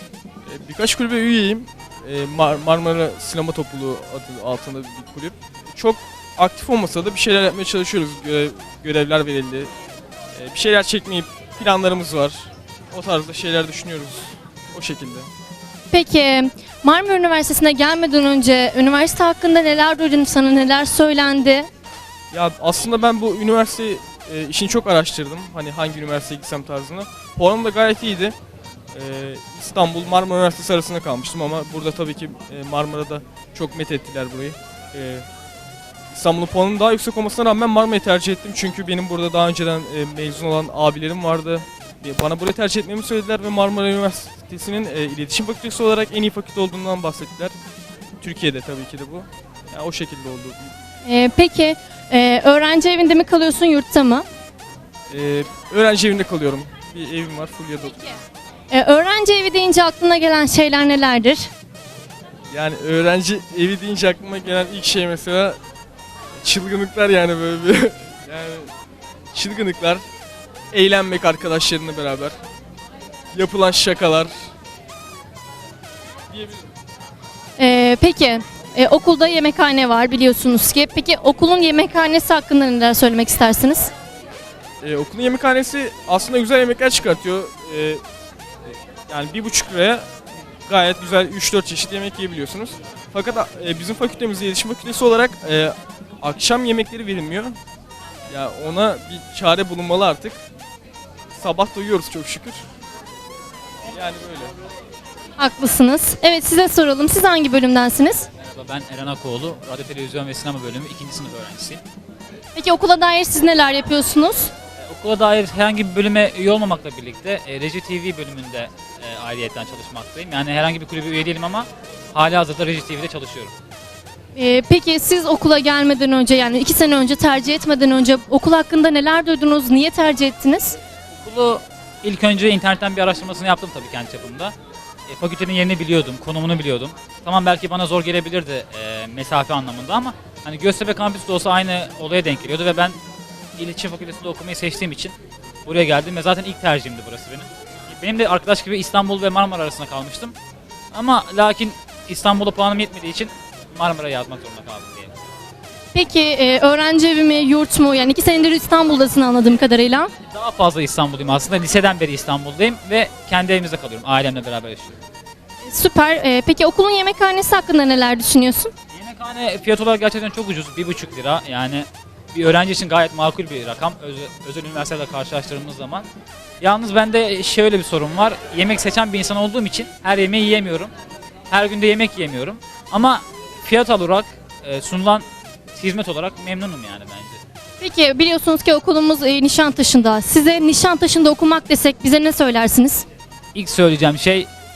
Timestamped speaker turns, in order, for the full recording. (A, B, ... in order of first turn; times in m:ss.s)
0:00.4-0:09.7 A
0:10.3-0:15.3 A
0:15.9-0:21.7 B
0:22.3-0:28.3 A
0:28.9-0:35.2 A
0:36.1-0:47.6 A
0:48.2-0:50.7 A
0:51.0-0:54.2 B
0:55.1-0:58.1 A
0:58.7-1:01.5 B
1:02.5-1:05.6 A
1:06.4-1:08.7 A
1:09.3-1:10.0 A
1:10.7-1:12.3 A
1:13.3-1:14.3 A
1:17.6-1:23.9 B
1:24.8-1:28.0 A
1:29.1-1:30.0 A
1:30.7-1:37.6 A
1:38.3-1:40.4 A
1:41.3-1:42.6 A
1:43.9-1:44.5 A
1:45.4-1:48.3 B
1:48.4-1:51.8 C
1:52.5-1:54.5 B
1:54.8-2:03.5 C
2:04.3-2:10.8 B
2:11.2-2:14.5 C
2:15.1-2:23.0 C
2:23.6-2:25.1 C
2:25.6-2:30.3 C
2:30.9-2:35.1 C
2:35.9-2:40.1 B
2:40.3-2:45.0 C
2:45.6-2:48.7 B
2:48.9-2:56.1 C
2:56.6-3:00.9 C
3:01.5-3:07.4 C
3:07.8-3:13.0 B
3:13.5-3:14.5 C